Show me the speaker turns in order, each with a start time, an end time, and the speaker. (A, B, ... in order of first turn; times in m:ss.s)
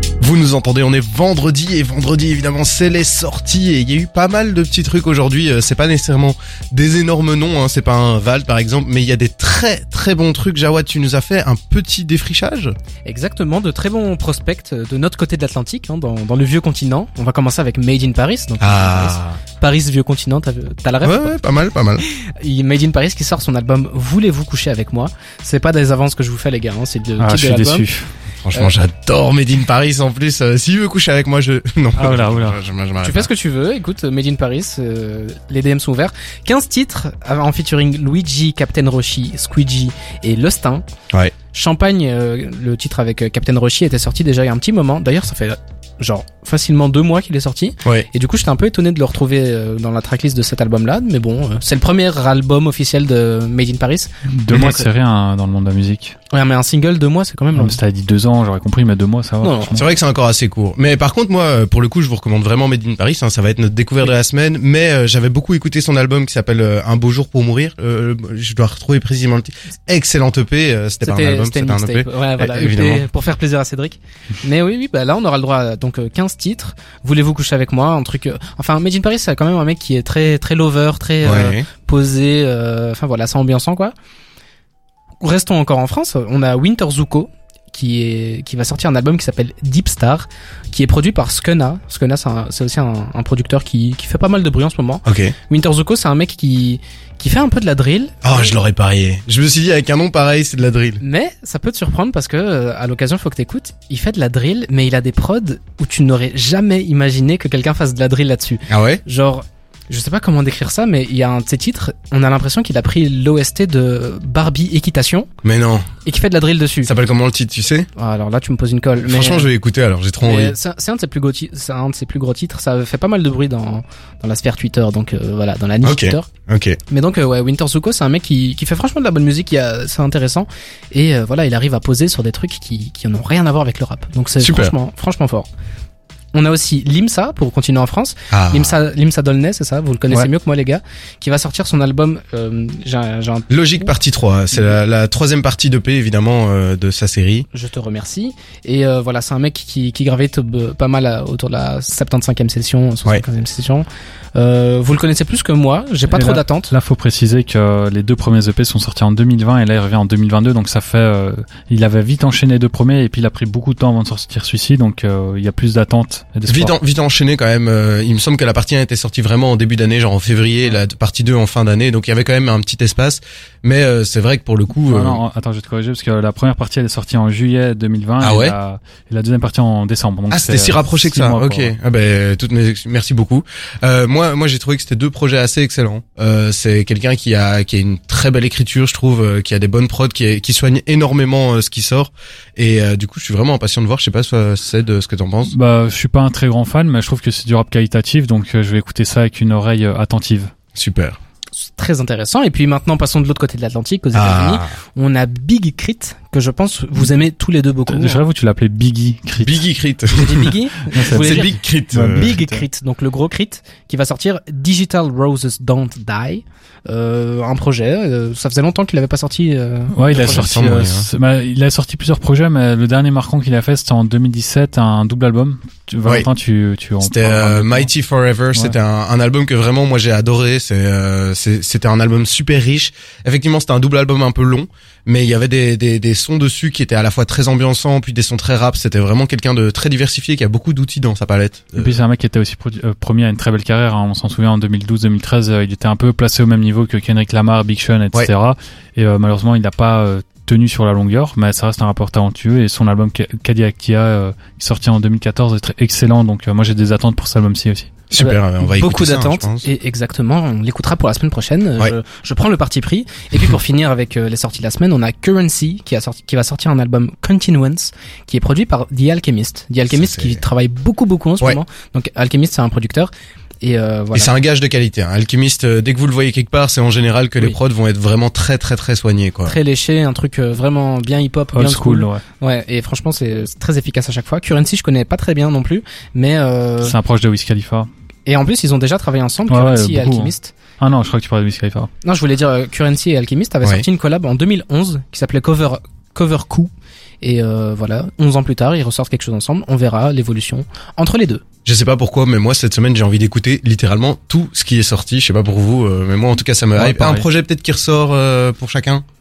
0:00.2-0:12.7 A
0:13.1-0:21.4 B
0:18.6-0:19.4 A
0:21.0-0:22.0 A
0:22.0-0:27.9 B
0:27.2-0:28.1 C
0:28.4-0:33.3 A
0:32.0-0:32.6 C
0:33.0-0:40.8 B
0:41.5-0:54.1 B
0:54.3-0:56.2 C
0:54.5-0:54.8 A
0:56.3-0:57.8 B
0:57.6-0:59.8 C
0:59.4-0:59.8 B
0:59.8-1:13.0 A
1:11.0-1:23.9 B
1:21.2-1:21.7 A
1:25.2-1:38.5 B
1:35.0-1:35.3 A
1:38.2-1:41.0 A
1:41.0-1:55.3 B
1:48.7-1:49.0 A
1:55.4-1:55.9 A
1:56.0-1:56.9 B
1:56.8-1:57.9 A
1:58.0-1:59.5 B
1:59.0-2:00.6 A
2:00.2-2:06.3 B
2:05.8-2:06.8 A
2:06.9-2:15.5 B
2:14.4-2:14.7 A
2:16.3-2:23.6 B
2:18.3-2:18.8 A
2:23.5-2:27.5 A
2:27.5-2:36.7 B
2:36.1-2:46.7 C
2:46.5-2:55.2 A
2:54.9-3:01.7 C
2:58.2-2:58.6 A
3:00.3-3:15.5 A
3:15.5-3:20.5 C
3:20.8-3:21.2 A
3:21.6-3:28.2 B
3:24.1-3:24.7 A
3:27.9-3:29.6 C
3:29.4-3:30.5 A
3:30.2-3:31.6 B
3:30.9-3:32.6 C
3:31.0-3:32.3 A
3:32.1-3:40.5 B
3:39.9-3:47.9 C
3:40.1-3:41.1 A
3:47.0-4:02.0 A
4:01.8-4:17.9 C
4:18.1-4:19.7 A
4:18.2-4:33.1 B
4:29.9-4:30.4 A
4:33.6-4:34.3 B
4:34.1-4:39.6 A
4:39.4-4:47.0 B
4:41.5-4:42.2 C
4:46.8-4:47.9 C
4:48.2-4:50.5 B
4:49.5-4:51.9 C
4:52.0-5:01.4 B
5:01.6-5:09.0 A
5:06.8-5:07.2 C